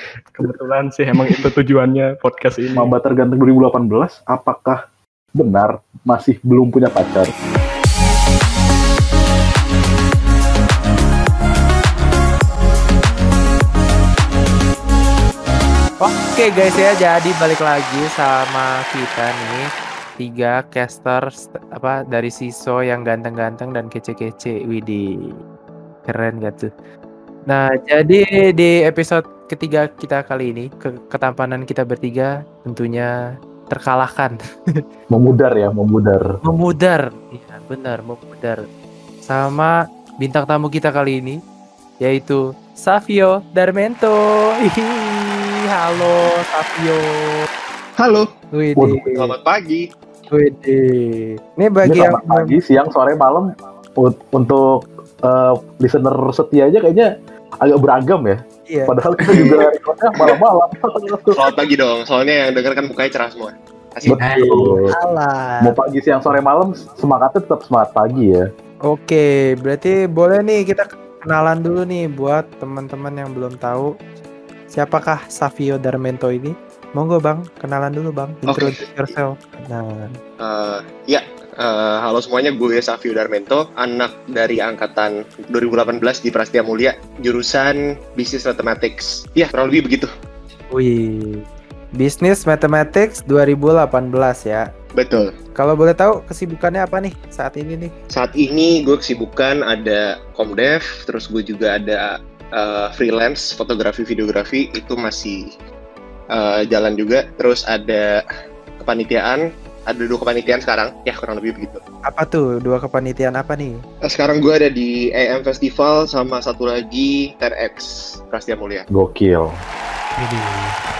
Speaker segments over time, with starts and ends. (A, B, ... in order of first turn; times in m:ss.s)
0:00.3-0:02.9 A
0:01.2-0:01.5 B
0:02.7-0:04.8 B
0:05.4-0:07.3 B
0:16.0-0:19.6 C
0:20.2-0:25.0 C
0:26.1-0:26.7 C
0:27.5-0:33.1 C
0:33.7-0:34.8 C
0:35.1-0:36.2 B
0:36.4-0:38.6 C
0:39.2-0:41.4 C
0:42.0-0:47.4 C
0:48.0-0:48.3 D
0:48.5-0:49.3 C
0:48.8-0:49.0 B
0:49.1-0:49.9 D
0:50.3-0:52.6 C
0:51.8-0:53.5 B
0:54.0-0:57.1 B
0:57.6-1:01.4 B
0:58.7-0:59.4 C
1:01.4-1:04.2 D
1:04.0-1:04.9 B
1:04.2-1:05.8 C
1:05.6-1:08.4 B
1:08.9-1:13.9 C
1:14.7-1:20.0 C
1:20.4-1:30.1 D
1:30.7-1:31.4 C
1:32.0-1:34.6 C
1:35.0-1:35.3 D
1:35.6-1:37.9 C
1:38.1-1:45.4 D
1:46.3-1:48.1 D
1:48.8-1:51.8 D
1:52.1-1:53.8 C
1:54.0-1:58.8 D
1:58.9-1:59.5 B
2:00.2-2:00.7 A